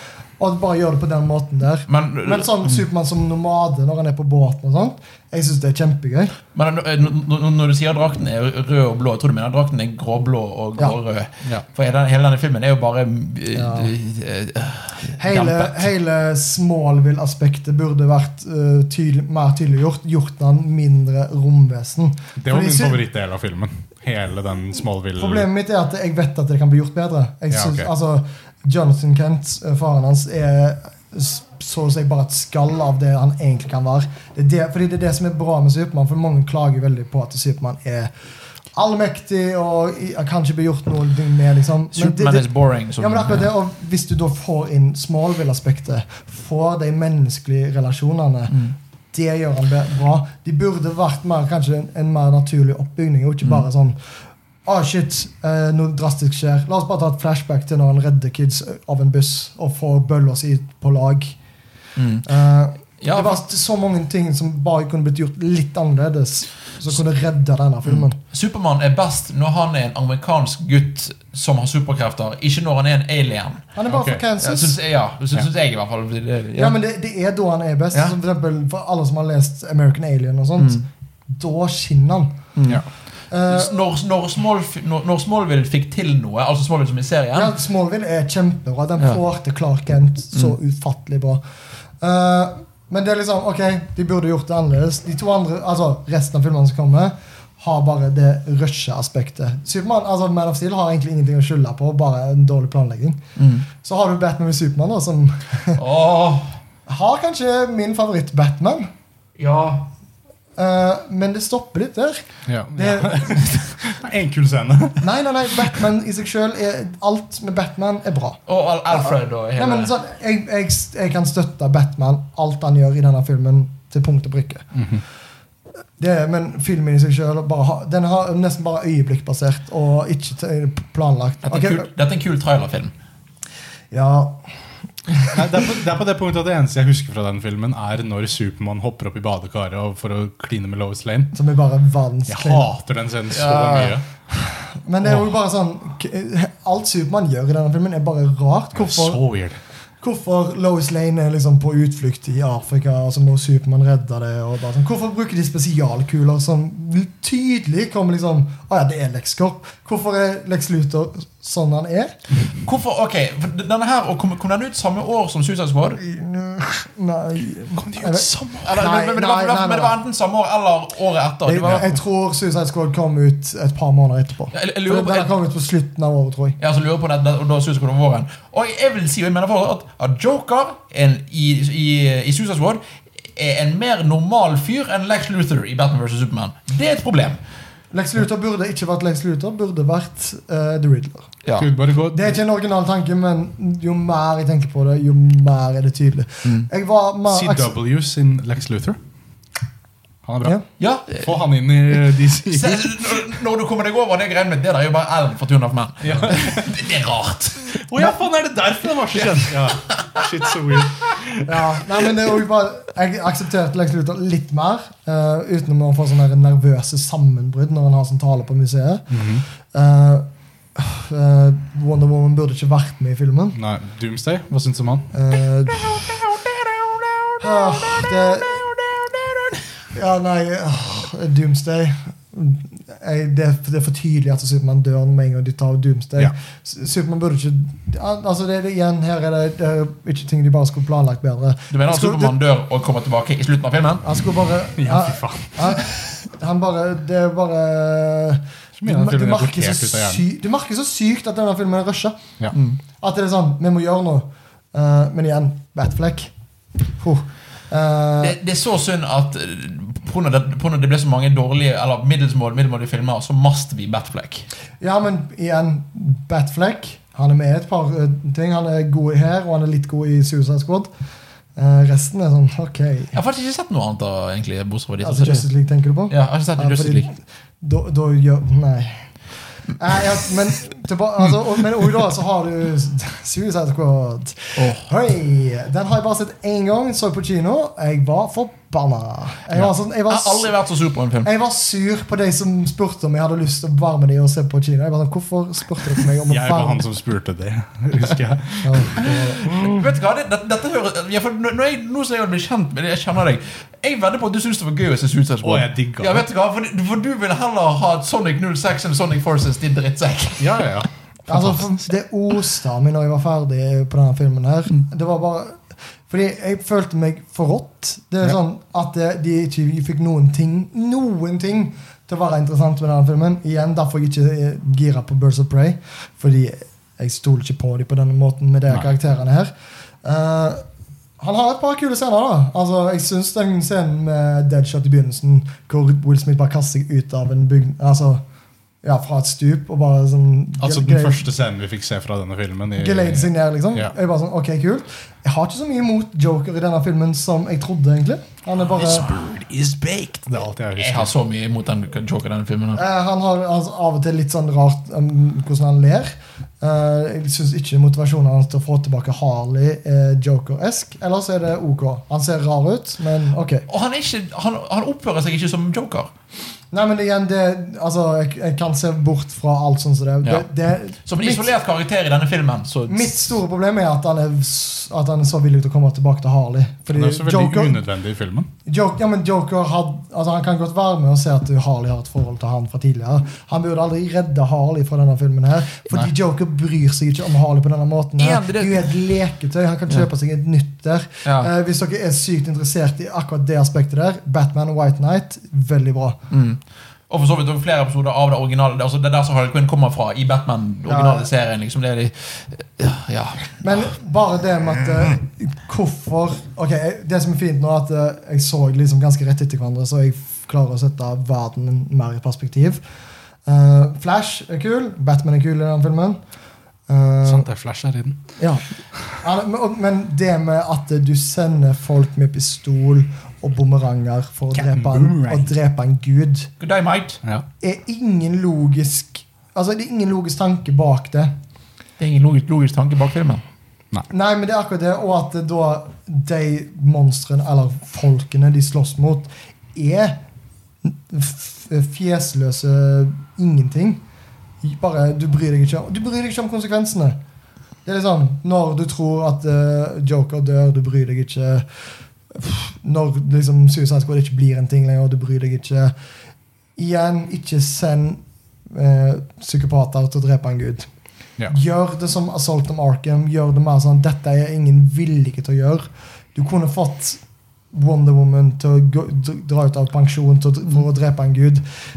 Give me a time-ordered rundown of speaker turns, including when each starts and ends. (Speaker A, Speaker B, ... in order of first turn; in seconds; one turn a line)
Speaker A: 0.4-6.3
Speaker B: 1.9-2.8
Speaker B: 6.5-15.9
Speaker A: 13.5-13.9
Speaker A: 15.2-23.0
Speaker C: 22.4-25.5
Speaker A: 25.2-38.1
Speaker C: 27.5-27.9
Speaker A: 38.7-48.6
Speaker B: 41.9-43.5
Speaker B: 48.5-48.7
Speaker A: 49.1-54.0
Speaker A: 54.6-61.3
Speaker B: 62.0-62.2
Speaker A: 62.2-68.2
Speaker B: 63.0-63.4
Speaker B: 67.8-73.6
Speaker A: 73.7-74.8
Speaker C: 73.9-74.2
Speaker B: 74.4-76.7
Speaker A: 76.5-82.4
Speaker B: 80.6-80.8
Speaker B: 82.5-82.8
Speaker A: 83.3-83.8
Speaker B: 83.5-87.5
Speaker A: 87.3-91.4
Speaker A: 92.0-105.8
Speaker B: 103.4-103.7
Speaker B: 105.8-106.5
Speaker A: 106.9-108.9
Speaker B: 109.4-109.9
Speaker A: 110.5-113.7
Speaker C: 112.5-115.8
Speaker A: 115.0-118.4
Speaker B: 118.5-119.9
Speaker A: 118.9-124.7
Speaker C: 124.7-125.0
Speaker A: 126.0-131.9
Speaker B: 131.4-132.9
Speaker A: 133.9-134.4
Speaker A: 135.1-135.4
Speaker C: 135.3-141.3
Speaker A: 141.3-142.7
Speaker C: 142.3-144.1
Speaker B: 143.3-143.9
Speaker A: 144.8-149.2
Speaker C: 148.7-149.6
Speaker A: 150.0-162.1
Speaker B: 162.6-166.0
Speaker A: 166.0-170.0
Speaker C: 167.7-168.7
Speaker B: 168.6-171.9
Speaker A: 171.4-176.6
Speaker B: 174.5-175.3
Speaker B: 176.6-182.8
Speaker B: 183.3-187.4
Speaker A: 187.9-191.3
Speaker C: 191.6-192.3
Speaker A: 192.1-197.7
Speaker C: 197.3-199.0
Speaker C: 200.2-200.6
Speaker B: 200.8-201.3
Speaker C: 201.1-202.9
Speaker B: 202.4-208.1
Speaker C: 206.0-206.7
Speaker C: 207.7-211.7
Speaker B: 209.1-210.5
Speaker A: 211.4-219.2
Speaker C: 219.1-219.4
Speaker A: 219.7-223.6
Speaker C: 223.5-225.1
Speaker A: 225.1-226.1
Speaker B: 225.9-229.6
Speaker A: 227.4-228.7
Speaker A: 229.9-242.3
Speaker B: 241.7-244.1
Speaker A: 244.0-252.2
Speaker C: 244.8-245.9
Speaker C: 248.8-250.2
Speaker B: 252.5-252.8
Speaker A: 253.0-256.3
Speaker A: 256.9-258.4
Speaker B: 258.2-264.5
Speaker A: 264.8-270.9
Speaker A: 271.6-273.1
Speaker B: 273.1-275.4
Speaker A: 275.0-279.1
Speaker B: 276.1-277.1
Speaker A: 279.8-290.5
Speaker B: 284.6-284.9
Speaker B: 290.1-291.3
Speaker A: 291.2-296.8
Speaker C: 296.3-299.5
Speaker A: 298.6-299.9
Speaker B: 299.0-310.5
Speaker C: 305.4-306.2
Speaker C: 310.4-311.8
Speaker A: 311.3-329.5
Speaker A: 330.0-330.6
Speaker A: 331.2-338.2
Speaker A: 338.8-341.2
Speaker C: 340.6-343.9
Speaker A: 342.8-349.1
Speaker C: 348.8-351.1
Speaker B: 350.8-352.8
Speaker A: 352.8-363.7
Speaker B: 363.7-366.1
Speaker A: 366.7-371.5
Speaker B: 371.1-373.1
Speaker A: 372.9-377.8
Speaker C: 376.9-378.5
Speaker A: 378.6-396.2
Speaker B: 388.2-388.9
Speaker B: 391.2-391.5
Speaker B: 396.3-403.6
Speaker A: 400.9-401.3
Speaker A: 403.6-412.8
Speaker A: 413.4-416.2
Speaker A: 416.9-417.5
Speaker C: 417.2-418.2
Speaker A: 418.4-426.5
Speaker C: 424.5-425.5
Speaker B: 426.6-427.2
Speaker A: 427.6-431.3
Speaker B: 432.0-433.4
Speaker A: 434.1-440.2
Speaker A: 440.8-444.0
Speaker A: 444.6-447.2
Speaker A: 447.9-451.6
Speaker A: 452.3-455.9
Speaker A: 456.8-460.9
Speaker A: 461.5-467.2
Speaker A: 467.7-471.6